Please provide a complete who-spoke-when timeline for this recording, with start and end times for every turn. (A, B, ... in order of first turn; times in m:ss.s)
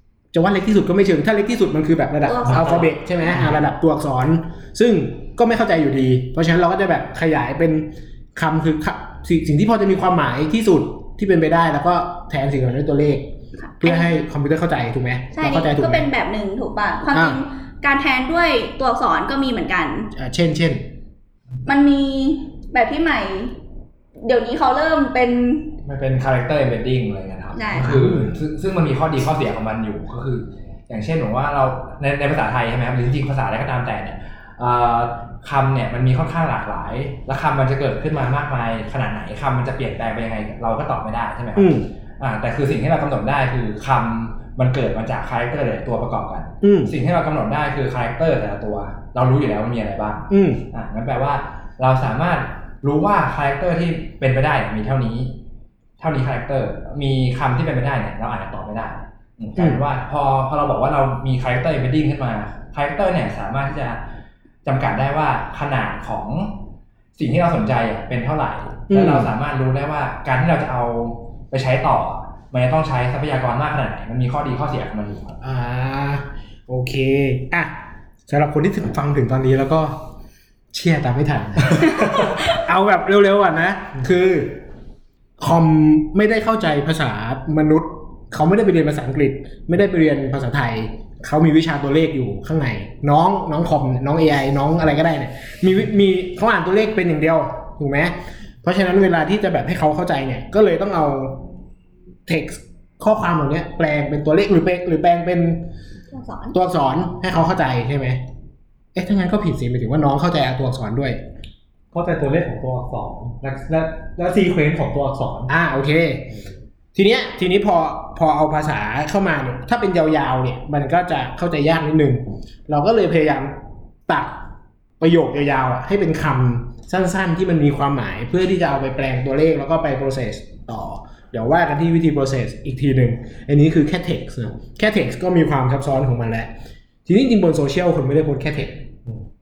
0:00.3-0:13.3 A
0:02.2-0:02.9 B
0:02.4-0:02.8 C
0:13.6-0:14.1 B
0:13.8-0:16.1 A
0:15.3-0:20.1 B
0:17.1-0:17.4 A
0:20.1-0:20.8 A
0:21.7-0:23.6 B
0:24.2-0:25.7 B
0:25.8-0:55.3 D
0:27.6-0:28.0 B
0:27.7-0:28.4 A
0:41.6-0:41.9 A
0:46.6-0:46.9 A
0:50.3-0:50.6 A
0:56.0-1:04.0 D
1:04.6-1:06.6 D
1:07.2-1:15.4 D
1:08.9-1:09.3 A
1:15.4-1:20.0 A
1:20.7-1:24.6 A
1:21.8-1:22.2 C
1:25.4-1:41.4 A
1:42.3-1:45.7 A
1:46.1-1:46.6 B
1:46.5-1:48.2 A
1:49.0-1:51.2 A
1:51.9-1:55.5 C
1:55.5-1:56.3 A
1:57.0-2:04.4 A
2:05.0-2:16.5 A
2:17.1-2:18.8 A